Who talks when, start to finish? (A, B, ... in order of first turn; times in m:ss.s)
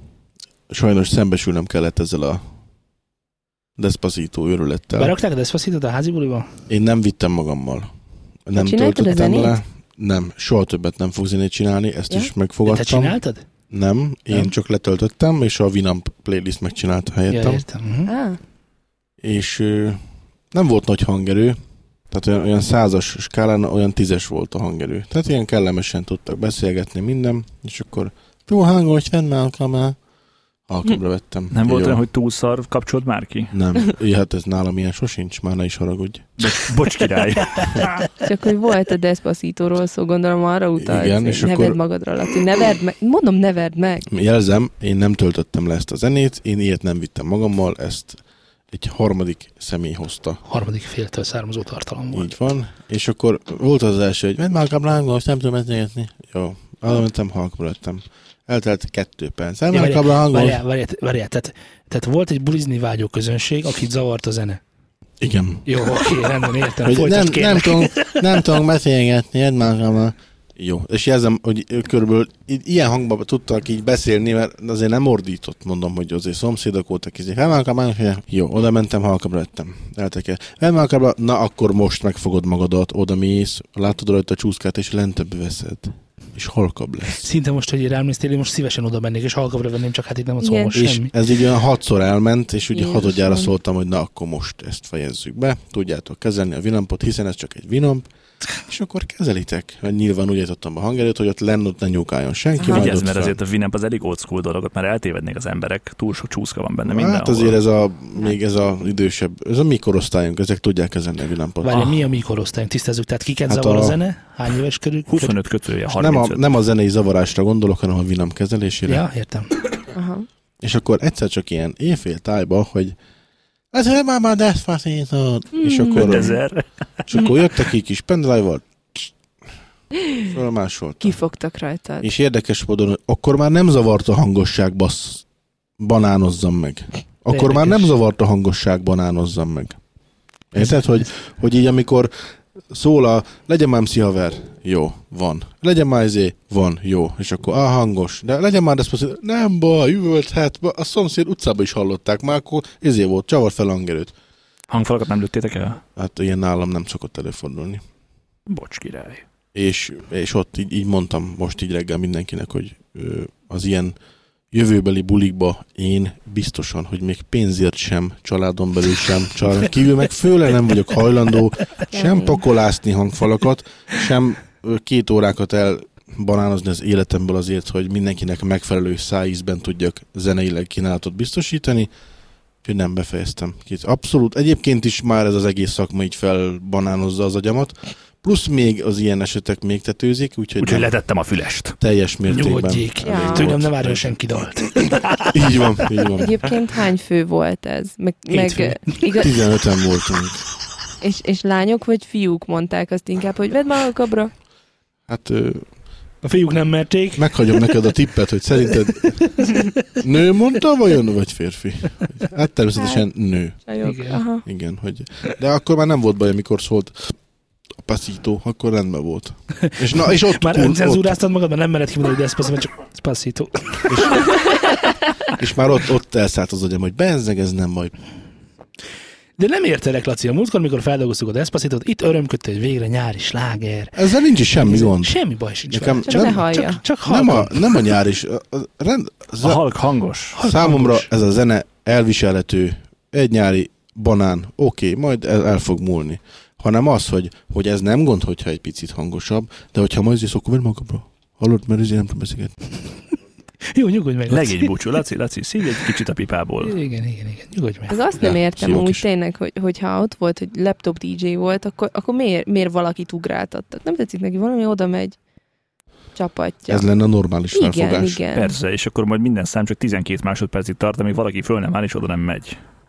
0:00.7-0:02.4 A
0:03.8-0:05.1 A
0:05.0-0:06.6 B
0:06.7-0:07.9 A
0:08.5-0:13.2 A
0:08.6-0:09.6 C
0:12.6-0:13.4 B
0:13.7-0:17.6 A
0:17.3-0:18.1 B
0:18.1-0:18.4 C
0:19.2-0:20.0 A
0:20.5-0:21.6 A
0:22.1-0:30.0 A
0:30.7-0:32.0 A
0:31.5-0:33.5 D
0:33.5-0:36.3 A
0:36.4-0:38.1 D
0:38.2-0:44.0 C
0:40.8-0:41.8 A
0:44.1-0:48.2 A
0:48.7-0:50.4 A
0:50.4-0:52.3 B
0:52.1-1:00.6 A
0:59.7-1:04.6 B
1:05.2-1:05.7 A
1:05.7-1:08.5 B
1:06.8-1:27.2 A
1:27.1-1:31.2 B
1:30.4-1:30.8 C
1:30.7-1:43.4 A
1:32.7-1:33.5 C
1:42.6-1:42.9 C
1:42.7-1:47.6 D
1:46.8-1:51.8 A
1:51.6-1:55.4 B
1:53.5-1:54.0 A
1:55.1-1:56.4 D
1:56.0-1:59.0 A
1:58.9-1:59.6 B
1:59.9-2:00.3 C
2:00.6-2:03.0 A
2:03.7-2:06.4 A
2:05.6-2:06.4 C
2:05.9-2:06.6 D
2:07.0-2:09.1 A
2:10.2-2:11.2 A
2:11.0-2:12.1 C
2:12.0-2:15.2 A
2:15.8-2:19.8 A
2:17.3-2:18.0 B
2:20.5-2:22.1 A
2:22.7-2:34.2 A
2:34.7-2:35.8 D
2:36.0-2:37.8 A
2:38.5-2:39.2 D
2:39.6-2:44.0 A
2:44.5-3:01.9 A
2:51.9-2:52.4 C
3:02.6-3:11.0 A
3:10.6-3:11.8 D
3:11.8-3:14.2 A
3:12.3-3:15.1 B
3:13.0-3:13.5 C
3:15.3-3:16.4 A
3:16.2-3:19.3 C
3:18.3-3:19.0 B
3:19.2-3:20.5 A
3:21.0-3:24.3 C
3:25.1-3:25.7 A
3:26.2-3:27.8 B
3:27.2-3:33.6 A
3:29.0-3:29.8 B
3:32.8-3:33.1 C
3:33.6-3:34.4 C
3:33.8-3:34.2 B
3:34.4-3:37.1 A
3:37.8-3:41.1 A
3:39.6-3:44.3 B
3:43.9-3:44.4 A
3:45.3-3:48.0 A
3:49.4-3:58.0 B
3:54.0-3:56.5 A
3:56.1-3:56.8 C
3:57.0-3:59.6 A
3:59.4-4:00.4 D
4:00.3-4:01.1 B
4:00.4-4:12.5 A
4:13.7-4:14.7 B
4:14.3-4:16.8 D
4:16.6-4:18.0 B
4:17.9-4:25.2 C
4:18.2-4:19.0 A
4:26.2-4:26.9 C
4:26.7-4:28.2 A
4:27.5-4:28.5 C
4:28.3-4:32.6 D